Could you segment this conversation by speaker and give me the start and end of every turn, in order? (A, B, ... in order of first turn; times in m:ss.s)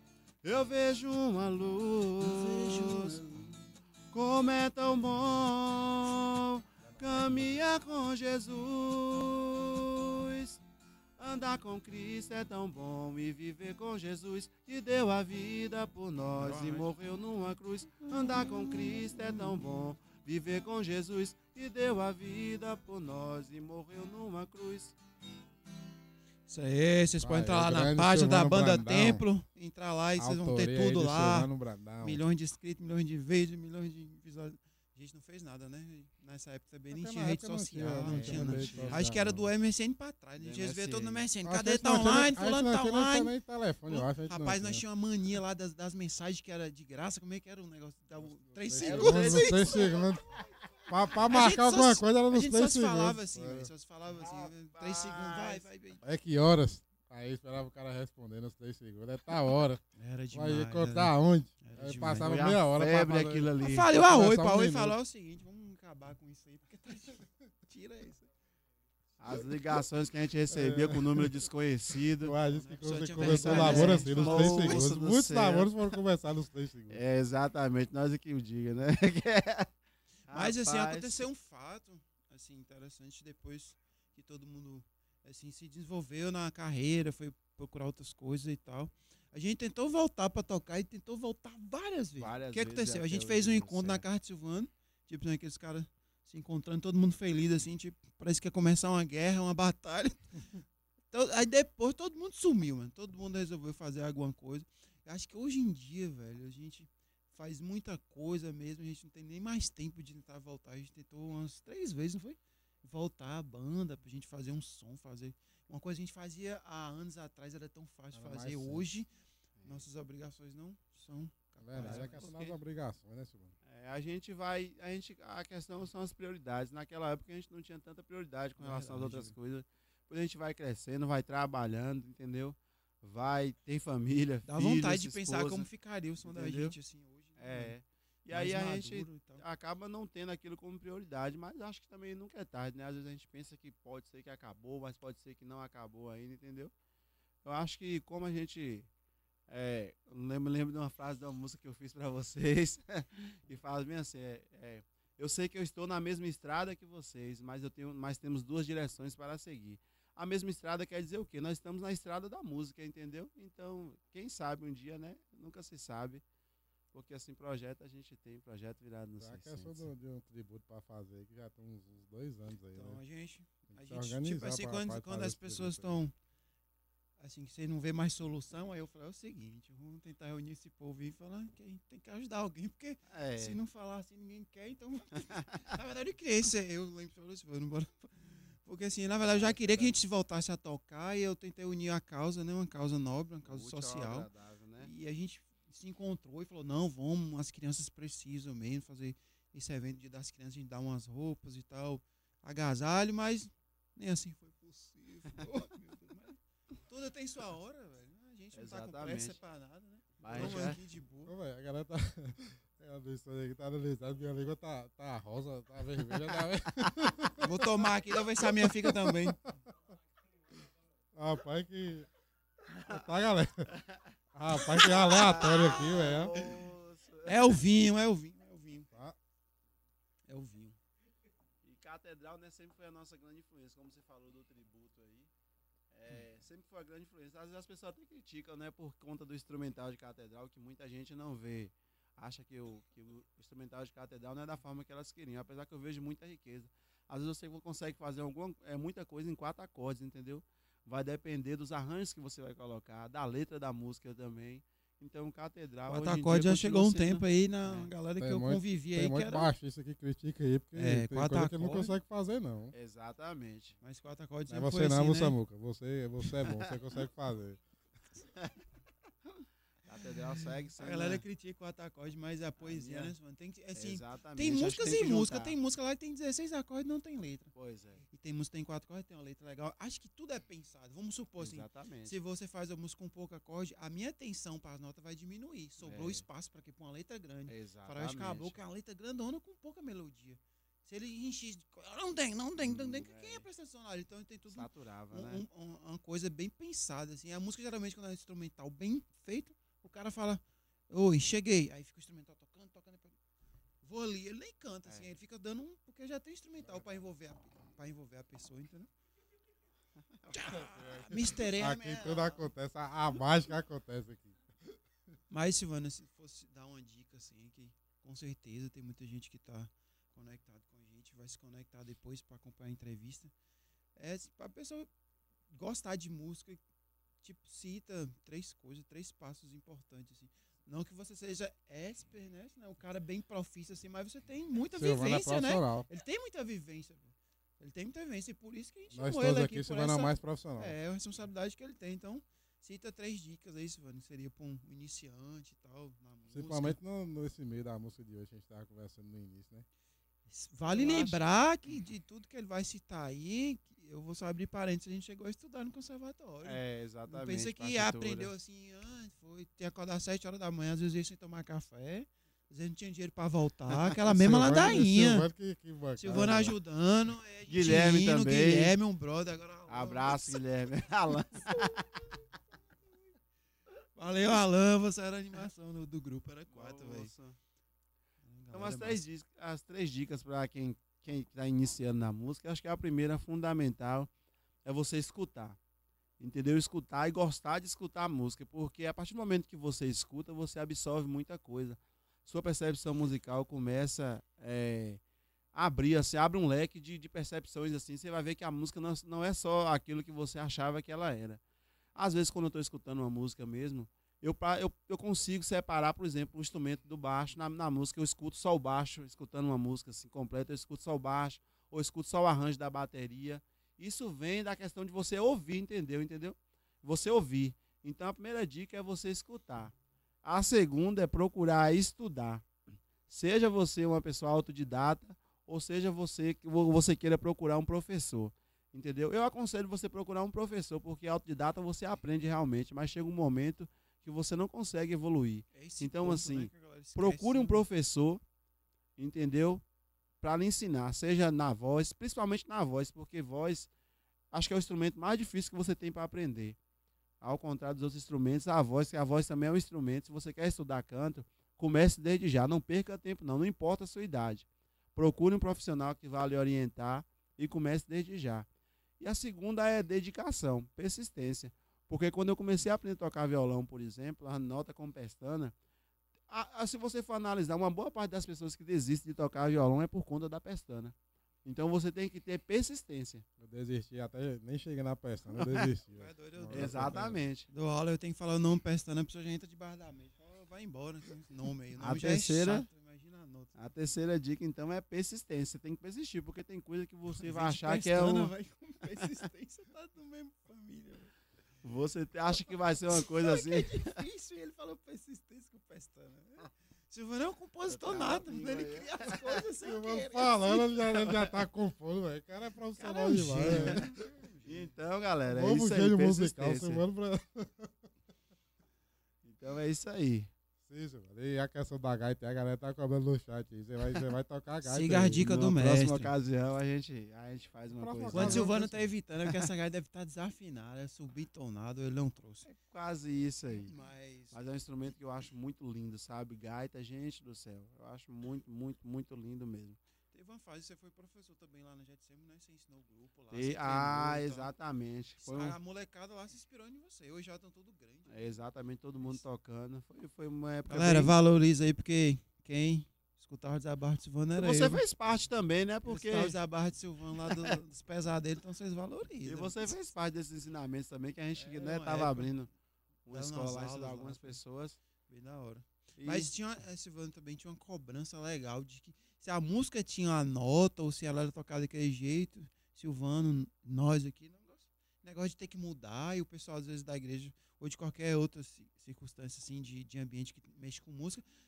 0:00.4-0:03.2 A
0:02.2-0:03.6 B
0:04.1-0:10.6 A
0:06.9-0:07.6 C
0:11.2-0:24.9 A
0:16.3-0:16.9 B
0:18.1-0:19.5 B
0:26.5-0:31.5 B
0:27.2-0:29.2 C
0:30.2-0:32.2 C
0:32.0-0:43.4 B
0:36.9-0:39.5 C
0:38.0-0:39.0 A
0:40.4-0:41.2 A
0:41.4-0:44.8 C
0:43.9-0:50.1 B
0:48.2-0:50.2 C
0:48.8-0:50.1 A
0:50.9-0:53.7 C
0:51.2-0:56.0 B
0:54.1-0:55.7 A
0:56.0-1:04.9 C
1:00.0-1:02.4 B
1:02.2-1:03.9 A
1:03.6-1:08.2 B
1:09.2-1:12.3 A
1:10.5-1:11.3 C
1:12.1-1:17.0 C
1:12.4-1:14.9 B
1:13.2-1:15.7 A
1:16.9-1:19.7 A
1:20.3-1:21.2 A
1:20.3-1:40.2 B
1:32.2-1:34.0 A
1:41.1-1:59.1 B
1:58.1-1:58.8 C
1:59.6-1:59.8 A
1:59.6-2:02.5 B
2:01.6-2:03.5 C
2:01.8-2:02.5 A
2:03.6-2:15.7 A
2:08.6-2:09.3 B
2:14.4-2:17.7 B
2:16.2-2:16.8 A
2:17.4-2:26.7 A
2:18.3-2:19.4 B
2:27.4-2:28.9 A
2:29.5-2:46.2 A
2:46.9-2:49.9 A
2:49.2-2:53.0 C
2:52.7-2:56.1 B
2:53.7-2:56.0 C
2:57.2-3:31.3 B
3:03.1-3:03.6 A
3:05.3-3:05.7 A
3:09.3-3:09.9 A
3:13.4-3:14.9 A
3:28.5-3:29.4 A
3:30.2-3:30.8 A
3:31.3-3:37.6 C
3:37.4-3:39.4 B
3:38.4-3:39.5 C
3:41.1-3:42.1 C
3:42.7-3:43.7 C
3:44.3-3:46.3 C
3:44.6-3:47.6 A
3:46.4-3:46.6 B
3:47.2-3:48.9 B
3:48.9-3:49.2 C
3:50.3-3:50.8 B
3:51.6-3:55.3 A
3:55.9-4:17.9 A
4:15.9-4:19.5 B
4:18.2-4:22.7 C
4:20.8-4:22.0 B
4:22.7-4:23.7 A
4:23.8-4:25.4 B
4:24.5-4:27.6 C
4:29.9-4:31.2 A
4:30.0-4:37.5 B
4:32.6-4:33.1 A
4:33.7-4:35.6 A
4:37.5-4:38.0 A
4:38.1-5:03.1 B
4:41.4-4:42.1 A
4:45.8-4:46.2 A
4:47.5-4:48.6 A
4:52.6-4:53.4 A
4:54.5-4:55.4 A
5:03.8-5:08.9 B
5:10.3-5:12.5 B
5:10.6-5:14.8 C
5:15.3-5:23.3 B
5:24.0-5:24.9 B
5:25.5-5:26.6 B
5:27.2-5:46.8 B
5:34.7-5:35.8 C
5:38.9-5:40.8 C
5:46.3-5:49.6 C
5:50.3-6:05.3 B
5:50.6-5:51.2 A
5:56.4-5:58.3 A
6:04.1-6:06.6 C
6:06.0-6:10.4 B
6:07.5-6:08.7 A
6:09.7-6:11.9 A
6:11.3-6:12.0 B
6:14.0-6:17.1 B
6:16.5-6:17.4 A
6:18.2-6:19.0 B
6:18.5-6:24.1 A
6:24.6-6:25.6 A
6:26.2-6:35.0 A
6:35.5-6:41.4 A
6:42.0-6:59.7 A
7:00.2-7:02.4 A
7:03.1-7:18.2 A
7:15.5-7:17.6 B
7:19.0-7:19.6 A
7:20.2-7:23.7 A
7:24.3-7:26.6 A
7:27.2-7:38.5 A
7:39.0-7:45.5 A
7:46.3-7:50.9 A
7:51.4-7:53.2 A
7:53.4-7:57.2 C
7:55.3-7:55.7 A
7:55.9-8:03.5 B
7:56.5-7:57.4 A
8:01.8-8:02.7 A
8:03.5-8:08.3 A
8:07.1-8:11.1 B
8:11.6-8:14.0 A
8:12.9-8:21.0 B
8:17.7-8:19.4 A
8:19.6-8:24.0 C
8:21.0-8:21.4 A
8:22.8-8:24.7 B
8:23.3-8:23.9 A
8:24.4-8:26.8 A
8:25.3-8:27.8 C
8:29.2-8:30.3 A
8:30.6-8:35.2 C
8:34.6-8:36.1 B
8:35.2-8:39.5 A
8:37.7-8:38.6 C
8:38.1-8:42.5 B
8:42.5-8:43.7 A
8:43.6-8:44.3 B
8:44.3-8:49.8 A
8:50.1-8:54.5 B
8:53.3-8:55.5 A
8:55.2-8:58.1 B
8:58.1-9:01.2 A
9:00.7-9:04.8 B
9:04.4-9:06.4 A
9:05.8-9:09.8 B
9:07.2-9:07.6 A
9:09.2-9:12.5 A
9:11.4-9:12.4 B
9:13.0-9:14.8 A
9:13.1-9:14.4 B
9:15.1-9:31.2 B
9:16.0-9:16.3 A